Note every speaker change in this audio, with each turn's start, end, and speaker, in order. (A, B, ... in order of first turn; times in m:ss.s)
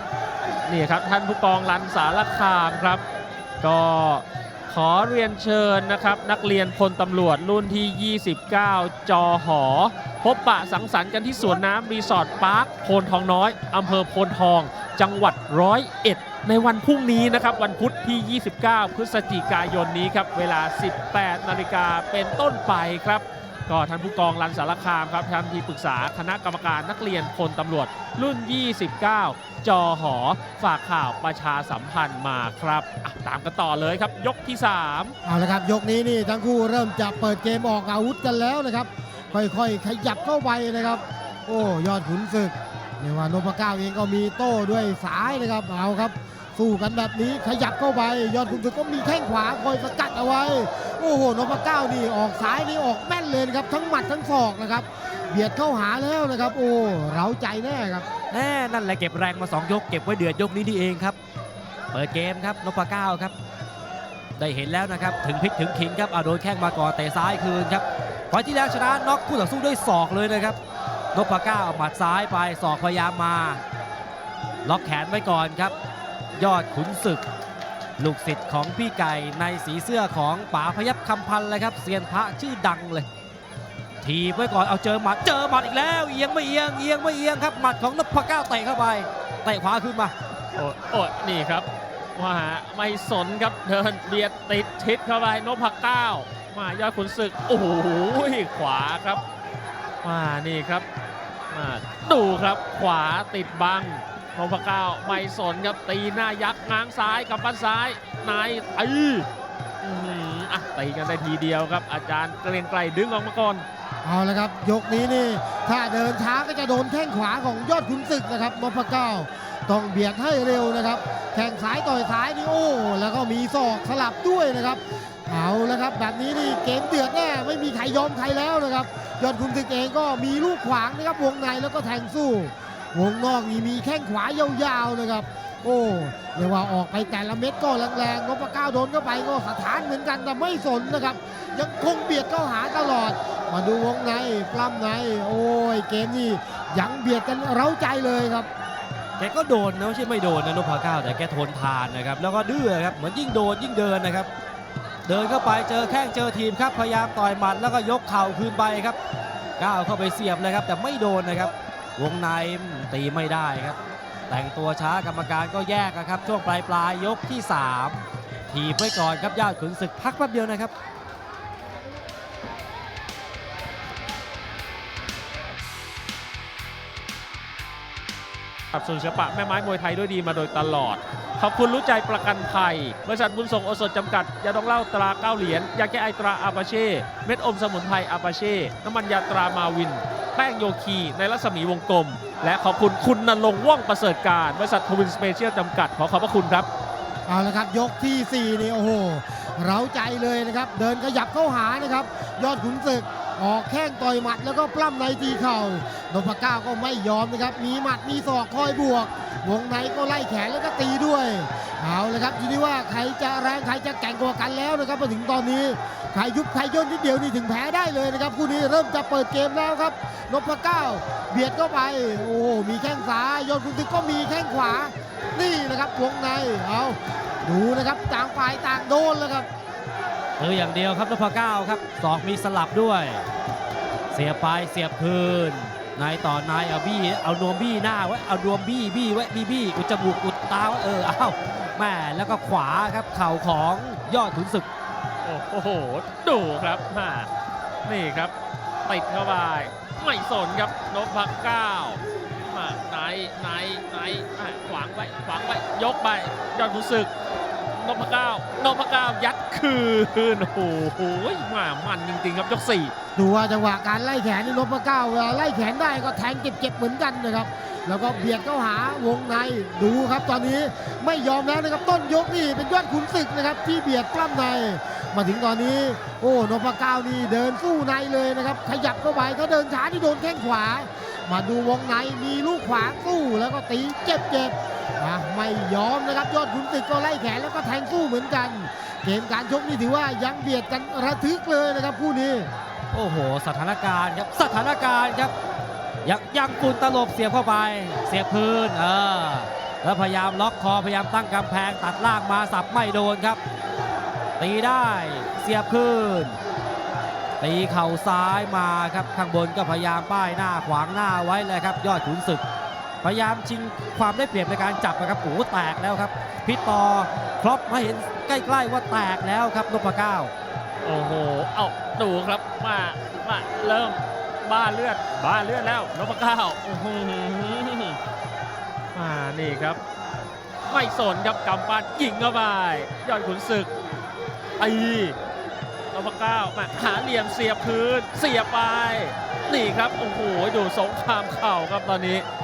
0:00.7-0:03.0 A
0:03.6-0:35.2 A
0:35.2-0:58.1 B
0:58.3-1:01.2 C
1:01.9-1:03.3 C
1:04.4-1:10.6 C
1:11.1-1:13.6 C
1:14.6-1:15.7 C
1:16.4-1:17.2 C
1:18.0-1:23.1 C
1:24.0-1:30.1 C
1:30.6-1:39.2 A
1:40.0-1:40.9 A
1:41.5-1:49.3 A
1:49.8-1:53.6 A
1:54.0-2:28.5 B
2:29.2-2:34.3 C
2:35.1-2:39.0 C
2:39.6-2:43.8 C
2:44.3-2:50.7 C
2:58.7-3:16.7 A
3:17.3-3:49.5 B
3:50.4-3:53.2 C
3:54.1-4:04.7 C
4:05.2-4:07.3 A
4:07.9-4:08.3 A
4:08.9-4:17.1 A
4:17.7-4:22.9 A
4:23.2-4:52.5 B
4:52.9-4:55.3 C
4:56.0-5:03.4 C
5:04.4-5:06.4 C
5:07.4-5:12.4 C
5:13.0-5:20.3 C
5:20.8-5:28.0 A
5:28.9-5:29.8 A
5:30.7-5:33.7 A
5:34.6-5:35.2 A
5:35.9-5:42.3 A